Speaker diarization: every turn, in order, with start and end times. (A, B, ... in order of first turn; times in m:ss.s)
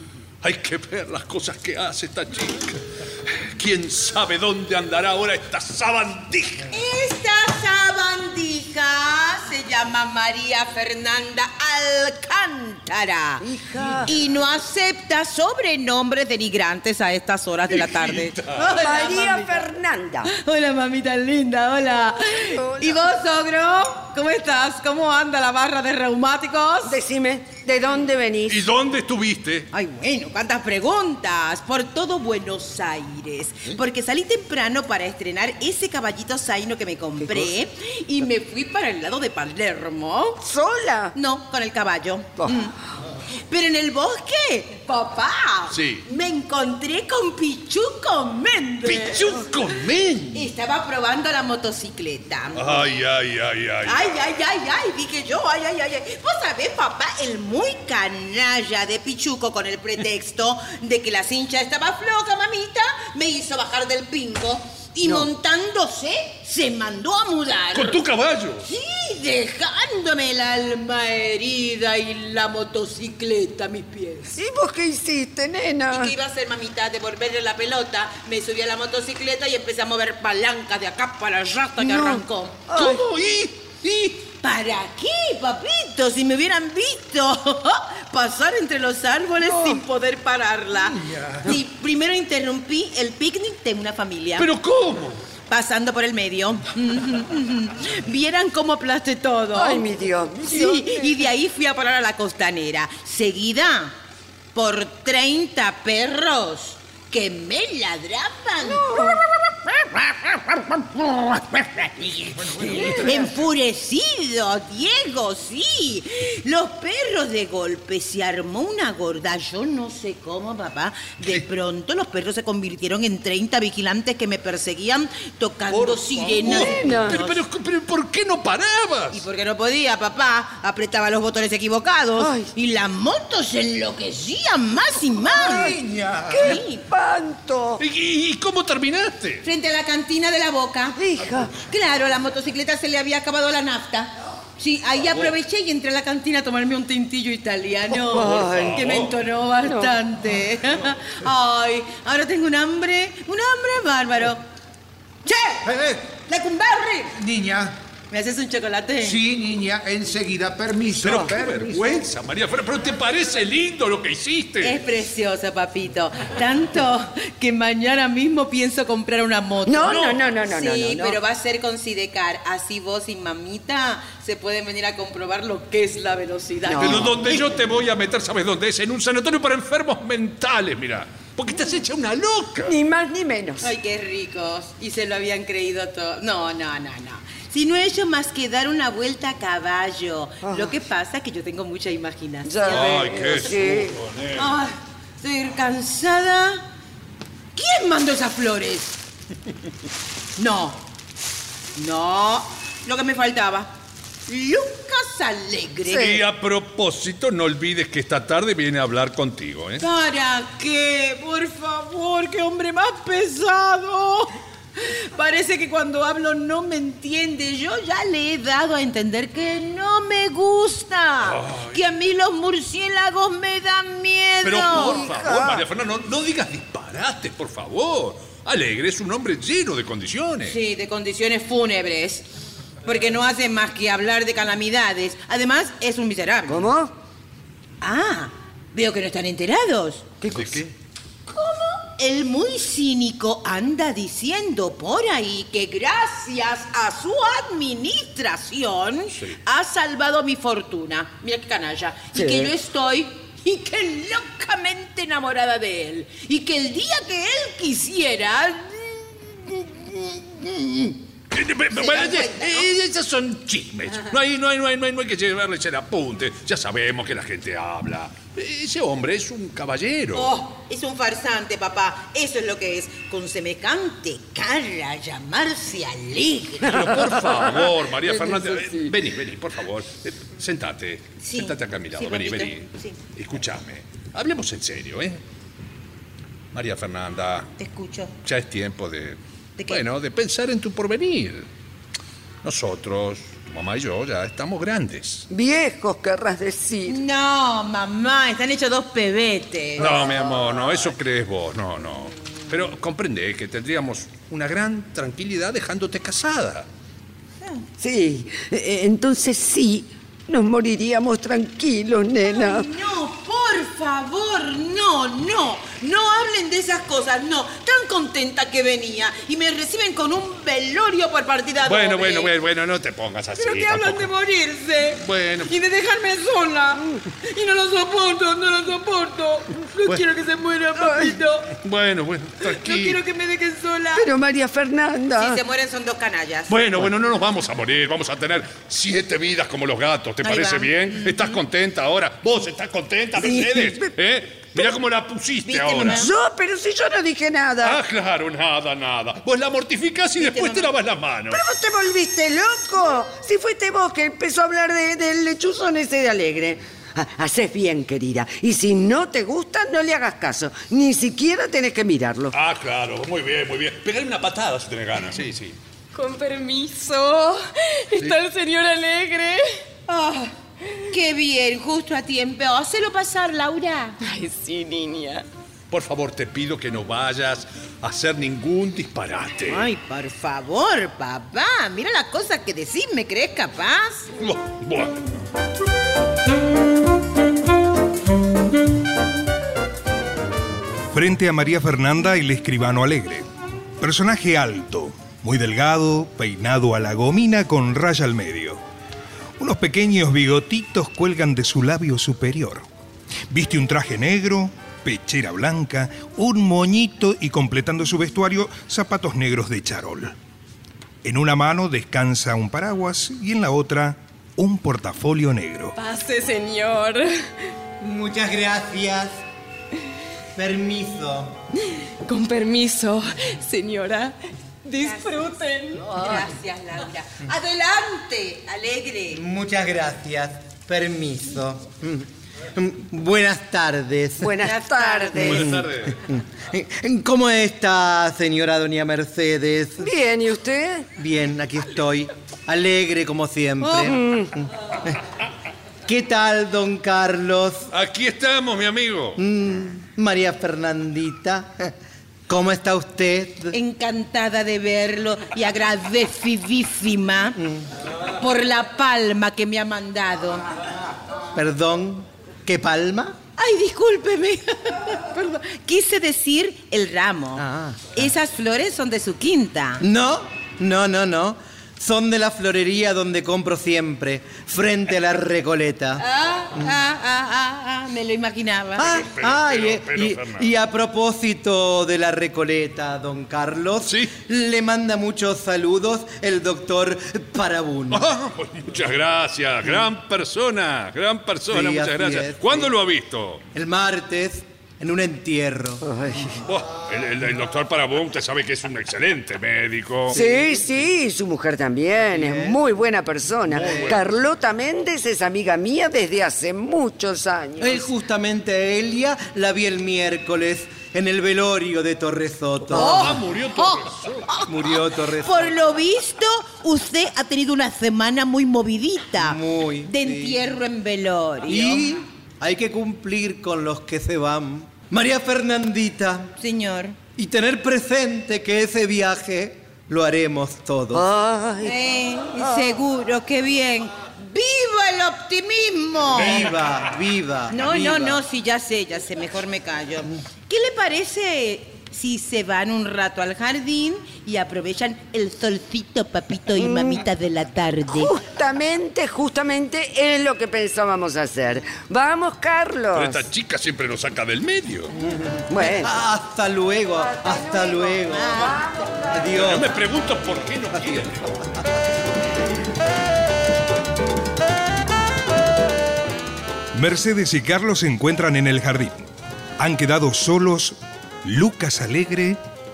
0:00.4-0:06.7 A
0:06.7-0:13.4 B
0:13.4-0:14.1 C
0:14.1-0:19.6 B
0:17.7-0:18.8 A
0:18.6-0:20.3 C
0:20.2-0:27.0 B
0:22.5-0:23.0 C
0:26.8-0:28.6 C
0:28.5-0:29.7 A
0:29.7-0:40.4 B
0:37.2-0:37.5 C
0:40.4-0:41.1 C
0:41.1-0:42.7 B
0:42.4-0:42.7 C
0:43.5-0:49.4 B
0:45.7-0:46.0 A
0:48.8-0:50.5 A
0:50.3-0:52.9 B
0:52.6-0:54.1 A
0:53.8-1:08.0 B
1:07.7-1:08.6 A
1:08.6-1:14.4 B
1:14.3-1:16.1 C
1:15.9-1:22.7 B
1:21.8-1:23.0 C
1:22.7-1:24.2 A
1:24.4-1:34.5 B
1:29.4-1:29.8 C
1:31.0-1:31.4 D
1:34.4-1:35.2 A
1:35.5-1:39.8 B
1:39.5-1:41.1 C
1:40.4-1:43.9 B
1:44.5-2:07.4 B
1:48.6-1:49.2 C
1:52.6-1:53.1 A
1:52.6-1:53.1 C
2:05.7-2:09.2 A
2:06.4-2:07.2 C
2:09.1-2:15.8 B
2:12.2-2:12.5 C
2:15.4-2:17.8 C
2:15.4-2:16.5 D
2:16.4-2:16.8 B
2:17.8-2:19.4 A
2:19.4-2:21.0 B
2:21.0-2:21.5 C
2:21.5-2:34.4 B
2:27.9-2:28.8 C
2:28.3-2:29.1 A
2:29.6-2:30.0 C
2:35.2-2:35.7 B
2:35.6-2:36.1 D
2:36.2-2:37.1 B
2:37.2-2:37.8 D
2:38.1-2:39.2 B
2:39.0-2:42.0 D
2:41.0-2:44.8 A
2:44.6-2:57.4 B
2:49.6-2:51.2 C
2:56.6-2:57.1 C
2:56.8-3:02.8 A
3:02.6-3:03.7 C
3:03.6-3:13.5 B
3:10.4-3:10.8 C
3:12.4-3:14.0 C
3:12.6-3:14.5 A
3:14.4-3:16.6 B
3:17.5-3:19.0 B
3:20.4-3:20.8 B
3:21.8-3:23.7 B
3:24.3-3:26.2 B
3:25.9-3:26.2 C
3:25.9-3:29.8 A
3:29.8-3:45.1 B
3:41.2-3:41.8 A
3:44.4-3:50.6 A
3:44.7-3:45.6 C
3:50.4-3:52.2 B
3:52.8-3:56.7 B
3:56.5-3:56.9 C
3:57.8-4:00.1 B
4:00.2-4:00.6 C
4:00.2-4:00.7 A
4:01.3-4:21.0 B
4:12.1-4:12.5 C
4:21.3-4:30.3 A
4:21.7-4:22.7 B
4:30.1-4:36.8 B
4:36.6-4:45.2 A
4:38.0-4:38.9 C
4:41.2-4:43.0 B
4:46.5-4:47.5 A
4:47.6-4:48.1 B
4:48.2-4:51.5 A
4:52.4-4:55.3 A
4:55.3-4:57.0 C
4:56.8-5:00.6 B
4:59.8-5:06.7 A
5:07.8-5:12.7 C
5:12.2-5:22.3 B
5:21.6-5:24.1 A
5:23.4-5:31.5 B
5:24.9-5:25.5 A
5:30.8-5:31.1 C
5:31.6-5:33.0 A
5:32.4-5:34.1 B
5:33.9-5:35.4 C
5:35.1-5:36.5 B
5:36.5-5:46.1 A
5:40.2-5:41.4 B
5:43.2-5:43.9 C
5:45.4-5:46.1 B
5:45.8-5:47.8 C
5:47.6-5:51.4 A
5:50.2-5:50.7 B
5:51.3-6:02.3 C
6:02.3-6:05.6 A
6:05.9-6:09.5 E
6:09.9-6:10.3 B
6:10.9-6:14.0 B
6:14.0-6:15.2 E
6:15.7-6:19.7 A
6:19.5-6:24.1 B
6:24.2-6:25.0 A
6:30.9-6:33.2 F
6:33.8-6:38.6 F
6:39.4-6:42.6 F
6:43.3-6:50.1 F
6:51.0-6:55.8 F
6:55.8-6:57.2 E
6:57.8-6:59.2 G
7:00.3-7:01.4 G
7:01.7-7:06.1 E
7:04.7-7:09.2 B
7:09.1-7:14.4 G
7:14.2-7:15.5 C
7:14.4-7:15.4 B
7:15.2-7:16.0 A
7:15.2-7:19.9 G
7:19.8-7:20.9 C
7:21.0-7:25.0 G
7:23.6-7:24.3 C
7:25.8-7:27.7 G
7:27.7-7:29.2 A
7:29.2-7:31.7 G
7:32.3-7:33.6 G
7:33.5-7:37.4 B
7:37.4-7:37.7 G
7:38.2-7:40.4 B
7:41.3-7:43.2 G
7:43.4-7:49.8 B
7:47.4-7:47.9 G
7:49.8-7:56.0 G
7:56.0-7:59.0 B
7:58.8-8:08.1 G
7:58.8-8:00.5 A
8:03.8-8:04.1 A
8:07.9-8:13.4 A
8:11.5-8:12.7 G
8:13.5-8:15.8 G
8:15.8-8:16.4 C
8:16.4-8:20.2 A
8:20.1-8:20.6 G
8:20.1-8:27.9 C
8:22.1-8:22.6 G
8:23.5-8:24.1 A
8:23.5-8:24.0 G
8:27.6-8:33.2 G
8:32.7-8:34.3 A
8:32.7-8:41.9 B
8:34.5-8:35.5 G
8:39.2-8:40.4 G
8:41.5-8:46.3 G
8:46.4-8:47.0 B
8:47.2-8:51.0 G
8:50.9-8:51.8 C
8:51.6-8:56.5 B
8:52.4-8:52.7 C
8:56.1-8:58.2 G
8:57.5-9:08.1 B
9:06.5-9:07.0 C
9:07.9-9:13.2 C
9:12.9-9:14.9 A
9:15.0-9:18.5 G
9:15.5-9:15.9 C
9:16.9-9:19.4 C
9:18.1-9:18.9 B
9:19.1-9:19.7 G
9:19.3-9:21.5 A
9:26.7-9:32.4 F